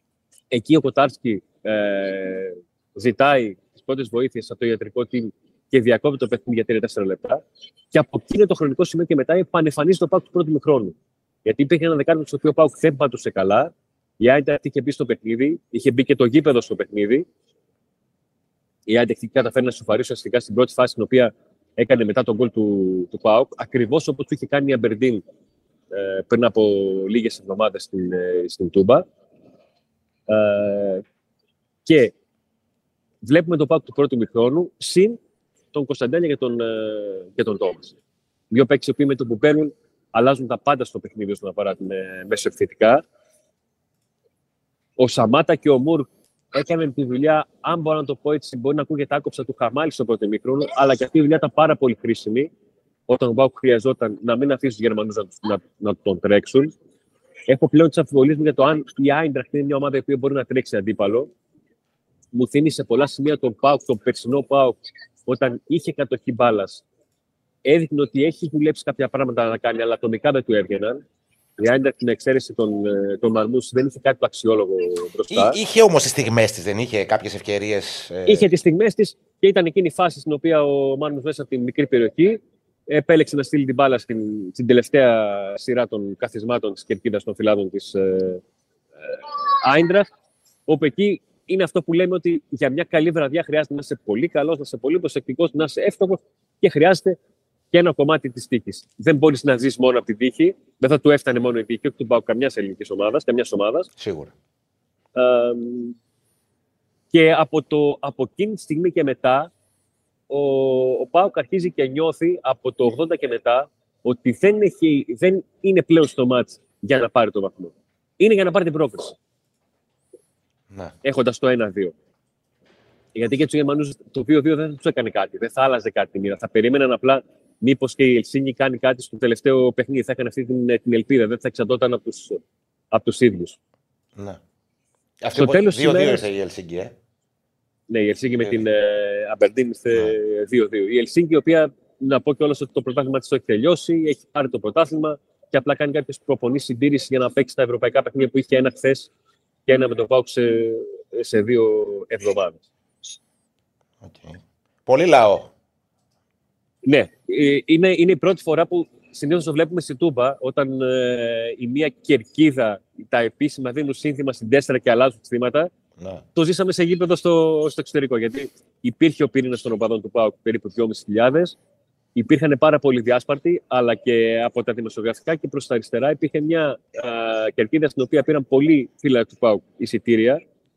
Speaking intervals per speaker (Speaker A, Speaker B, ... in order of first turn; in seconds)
Speaker A: 0.5-17.3, 18.9-25.2, 25.9-29.1, 30.3-31.0, 31.9-32.1, 33.2-35.2, 35.7-38.0, 38.5-43.0, 45.0-52.5, 53.1-56.7, 57.5-61.3, 62.3-66.8, 67.7-71.0, 71.6-75.6, 78.3-88.4, 89.1-90.1, 90.7-97.2, 97.7-103.9, 105.2-106.0, 107.1-109.5, 110.3-119.2, 121.0-121.9, 123.2-132.4, 132.9-133.6, 135.3-136.2, 137.9-149.1, 149.7-152.6, 156.8-165.7, 166.3-171.6, 172.2-180.4
Speaker B: 75.3-78.5, 104.0-104.3, 134.2-134.4, 135.2-136.9, 154.0-155.5, 166.0-166.2